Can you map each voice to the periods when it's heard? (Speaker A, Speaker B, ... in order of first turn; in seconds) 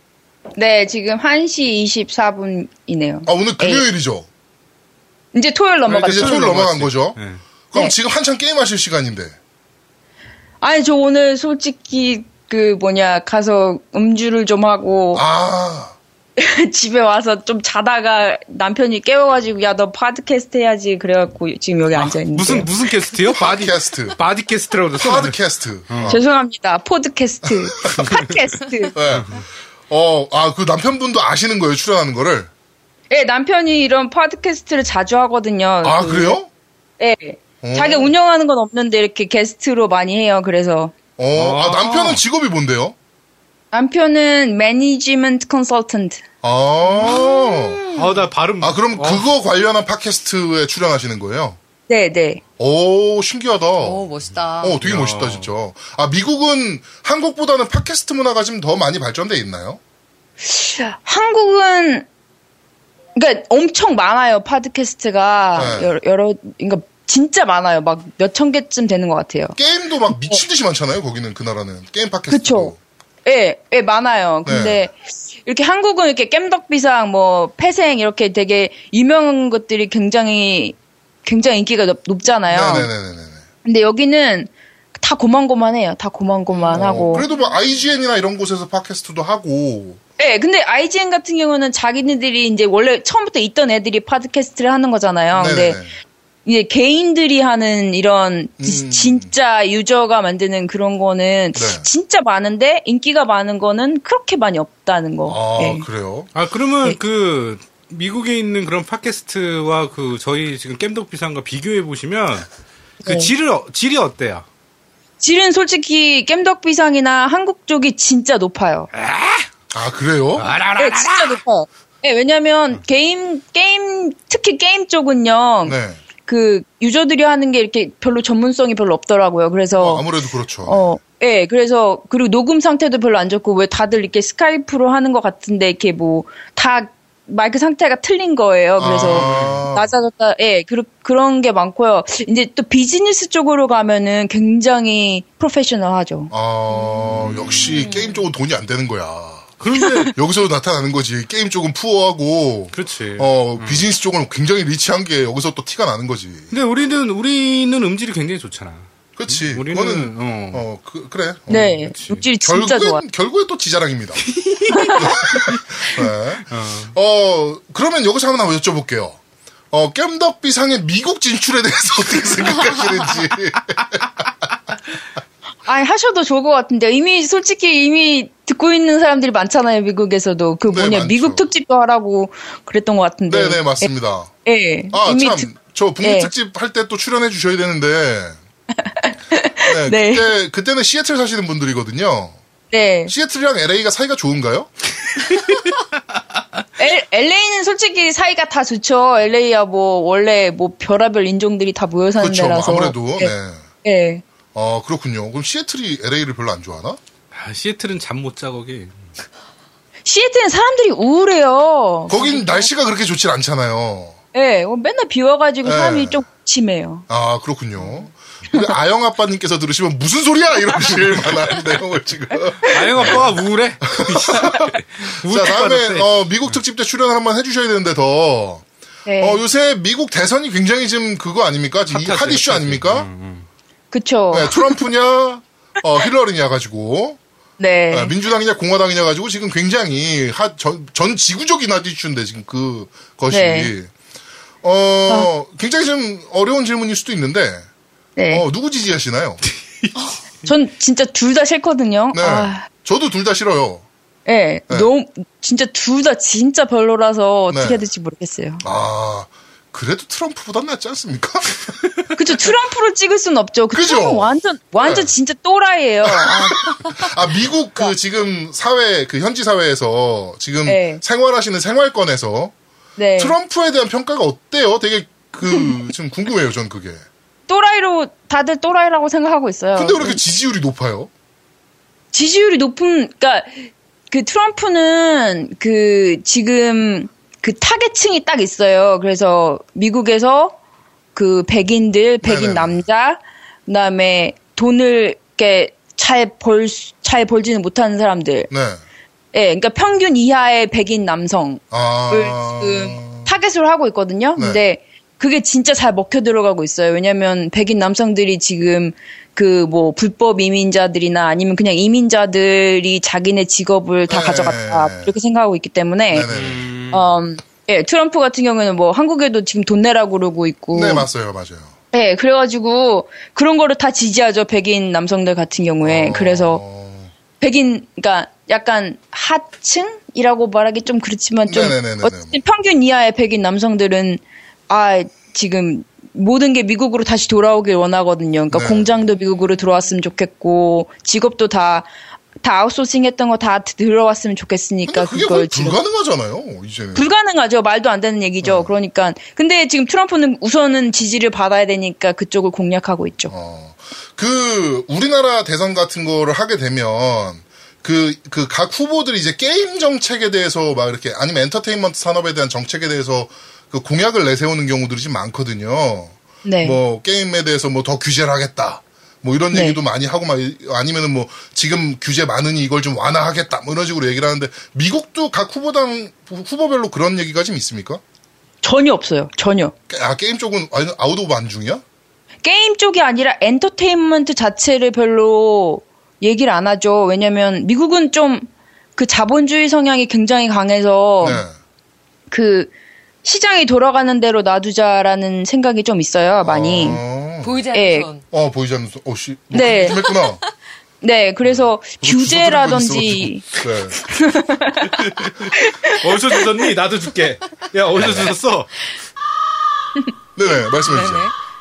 Speaker A: 0.6-3.9, 5.3-6.5, 10.6-15.2, 16.4-23.2, 26.1-29.0, 33.1-36.4, 37.0-40.9, 43.7-46.2, 51.9-52.4, 60.4-62.1, 63.1-69.6, 70.1-70.4, 72.3-72.7, 73.2-82.9, 83.6-87.3, 90.2-95.8, 96.5-105.9, 113.0-113.3, 115.2-118.9, 120.8-130.1, 130.7-147.0, 147.6-148.1, 149.8-150.1, 161.5-163.0, 164.7-165.3, 175.7-183.9, 184.4-185.5, 186.0-186.3, 188.8-190.3, 192.7-193.1, 196.8-203.3, 203.8-204.2, 210.1-212.4, 214.3-217.1, 229.1-229.4, 233.9-234.8, 237.6-238.1, 243.3-243.7, 248.2-248.4, 250.4-252.7, 254.3-258.6, 262.1-267.1, 270.7-271.0, 273.0-273.4, 277.5-280.2, 282.1-290.6, 291.1-298.5, 299.3-316.3, 316.9-321.1, 321.9-326.6, 327.4-341.9, 342.4-345.8, 346.9-353.3, 366.4-366.8, 369.5-369.8, 378.6-379.7, 382.4-391.4, 392.3-392.7, 393.2-397.0, 397.7-398.1, 399.5-400.0, 401.0-403.4, 404.0-406.7
Speaker B: 3.2-4.3, 6.0-7.2, 7.7-9.3, 15.1-15.9, 23.4-24.2, 25.0-26.2, 27.4-28.1, 28.9-32.5, 35.8-36.5, 37.6-38.1, 41.2-43.0, 46.4-47.8, 48.6-51.6, 52.6-54.1, 54.6-59.8, 65.6-66.0, 69.6-72.8, 74.5-74.9, 82.5-83.4, 86.7-90.0, 95.3-96.0, 98.6-99.3, 101.5-101.9, 105.3-106.3, 119.7-120.5, 125.7-126.0, 129.8-130.9, 138.8-139.9, 146.3-149.6, 150.1-156.5, 159.2-161.8, 162.4-164.2, 165.0-169.2, 169.7-174.3, 180.7-181.5, 183.3-184.3, 184.9-188.4, 189.7-192.3, 193.1-194.7, 202.2-203.6, 204.6-207.0, 212.1-214.2, 215.6-216.2, 217.1-228.7, 229.2-233.1, 234.3-237.2, 237.9-243.9, 244.6-247.7, 248.3-249.4, 252.1-253.8, 257.5-257.8, 258.6-262.1, 263.7-265.1, 266.1-272.5, 273.2-277.0, 279.8-281.1, 292.2-292.8, 298.5-298.8, 301.7-303.3, 304.4-304.6, 314.1-315.1, 316.1-316.7, 320.7-321.7, 325.8-327.1, 331.5-332.4, 338.5-339.0, 344.9-347.1, 348.4-348.8, 353.3-378.0, 379.9-381.8, 391.2-391.5, 396.4-397.6, 398.3-400.4, 402.0-404.0, 408.0-408.4, 410.4-411.3
Speaker C: 5.9-7.4, 22.0-26.2, 27.9-28.4, 29.1-29.4, 41.4-42.2, 47.9-49.3, 54.8-55.5, 106.3-112.5, 113.0-114.5, 118.9-119.5, 120.4-121.4, 139.2-139.6, 147.2-147.7, 149.6-150.1, 152.7-153.9, 156.5-160.7, 161.8-162.2, 164.2-165.6, 166.5-166.9, 207.3-209.0, 222.7-226.5, 231.9-233.5, 316.3-317.1, 404.9-408.7
Speaker D: 47.0-48.3, 53.8-54.8, 397.4-398.2, 410.8-411.3